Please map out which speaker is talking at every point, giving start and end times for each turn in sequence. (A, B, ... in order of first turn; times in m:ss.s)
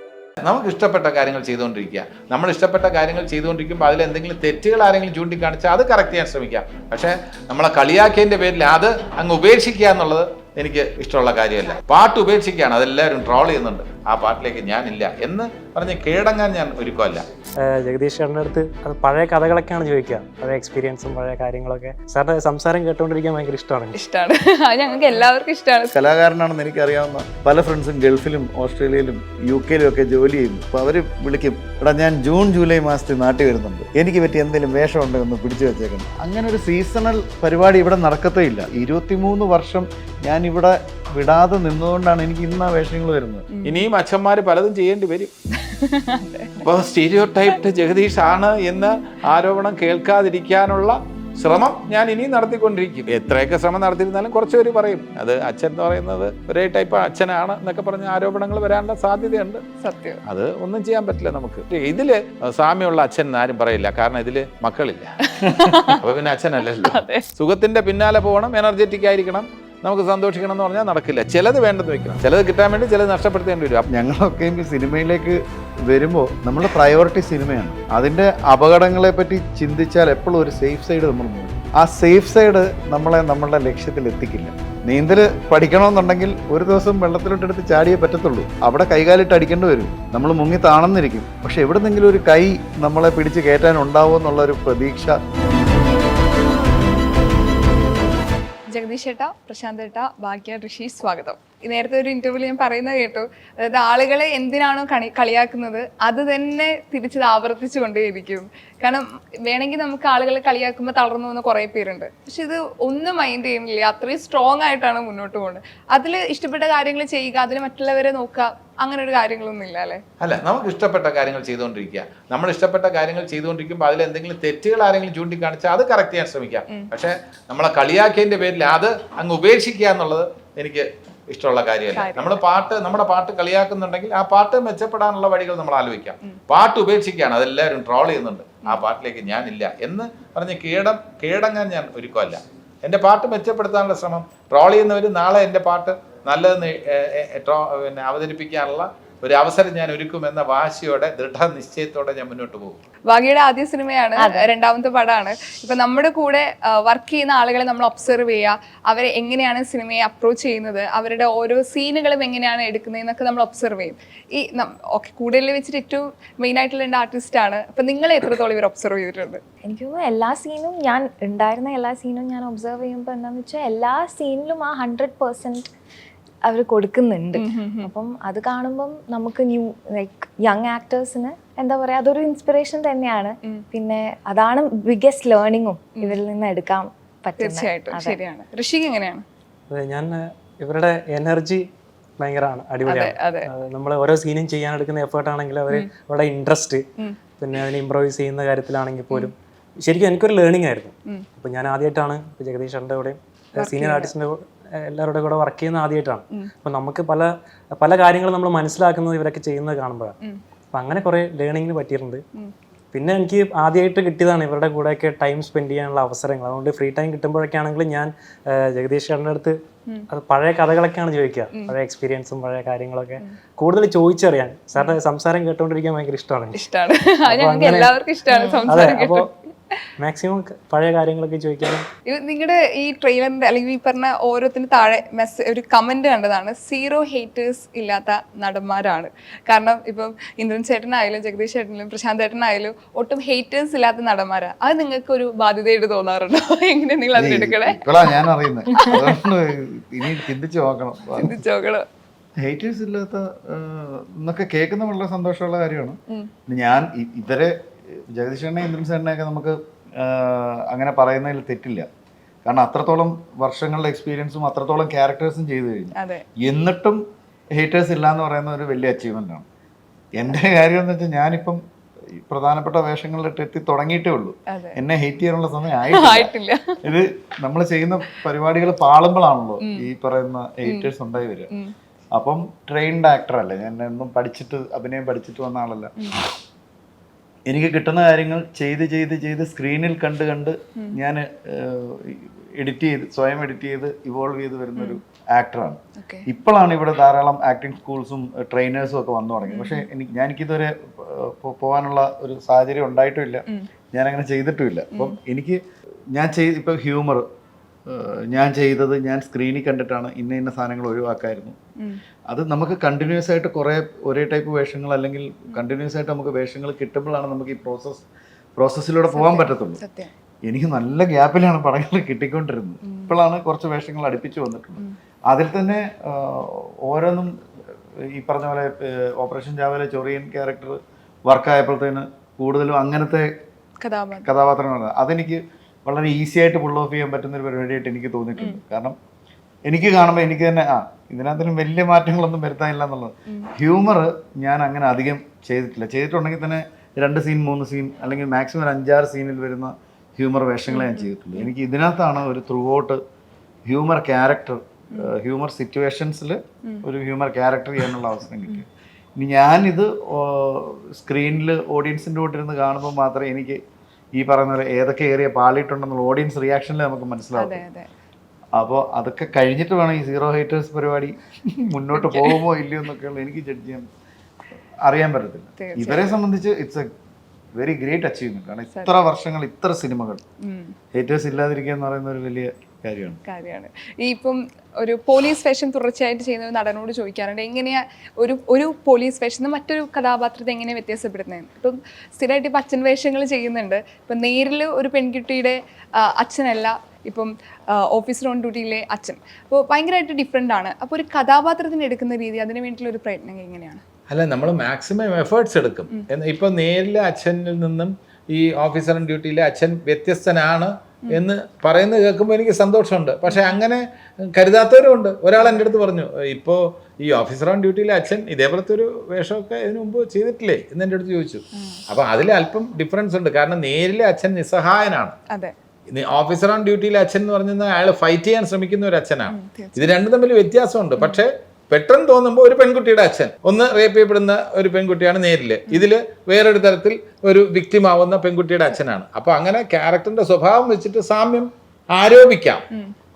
0:00.4-0:17.2 A
0:17.6-0:24.0 B
0:23.9-0:25.9 C
0:25.9-0:43.5 D
0:43.5-0:43.8 C
0:43.6-0:45.3 A
0:45.6-0:46.6 C
0:46.6-0:59.6 A
0:59.8-1:00.2 C
1:00.2-1:05.2 A
1:05.2-1:06.0 C
1:05.8-1:13.8 A
1:06.7-1:07.3 C
1:13.9-1:35.2 D
1:38.7-2:00.0 C
2:00.2-2:32.8 A
2:11.9-2:12.4 C
2:33.1-2:49.4 C
2:34.2-2:34.5 E
2:49.6-2:55.7 E
2:56.4-3:08.2 E
2:57.3-2:57.9 C
3:07.4-3:09.2 C
3:09.7-3:11.6 B
3:12.2-3:16.8 B
3:12.8-3:13.5 C
3:17.4-3:30.1 B
3:23.6-3:24.1 C
3:30.7-3:32.2 B
3:32.9-3:39.6 B
3:40.1-3:46.7 B
3:46.5-3:49.8 C
3:47.3-3:48.0 B
3:48.3-3:48.7 E
3:48.6-3:49.3 B
3:50.0-3:51.9 B
3:52.1-4:07.9 C
4:07.1-4:11.4 D
4:08.7-4:09.1 C
4:11.2-4:11.8 C
4:12.4-4:21.9 D
4:22.4-4:27.0 D
4:25.9-4:26.2 C
4:27.6-4:29.4 D
4:30.2-4:31.6 D
4:32.1-4:36.3 D
4:34.5-4:34.8 C
4:35.9-4:36.9 C
4:36.8-4:41.5 D
4:40.6-4:40.9 C
4:42.1-4:45.9 D
4:46.0-4:46.2 C
4:47.5-5:05.6 D
4:56.0-4:56.3 C
4:59.5-4:59.8 C
5:06.1-5:07.2 D
5:07.8-5:11.6 D
5:12.3-5:18.0 D
5:18.6-5:19.8 D
5:19.1-5:20.1 C
5:20.4-5:27.4 D
5:22.8-5:23.1 C
5:28.0-5:33.3 D
5:33.8-5:34.3 C
5:34.2-5:39.0 D
5:39.7-5:53.0 D
5:50.7-5:51.5 C
5:53.6-5:58.6 D
5:59.2-6:03.6 D
6:04.1-6:07.6 D
6:07.4-6:07.9 C
6:08.5-6:13.9 D
6:11.9-6:12.4 C
6:14.8-6:16.9 D
6:15.6-6:16.0 C
6:17.6-6:20.2 D
6:20.4-6:20.8 C
6:20.9-6:23.2 D
6:23.2-6:43.8 C
6:44.1-7:05.2 A
6:53.3-6:53.5 C
6:55.4-6:55.7 C
7:01.5-7:01.8 C
7:05.9-7:22.6 A
7:09.3-7:09.9 C
7:11.0-7:11.2 C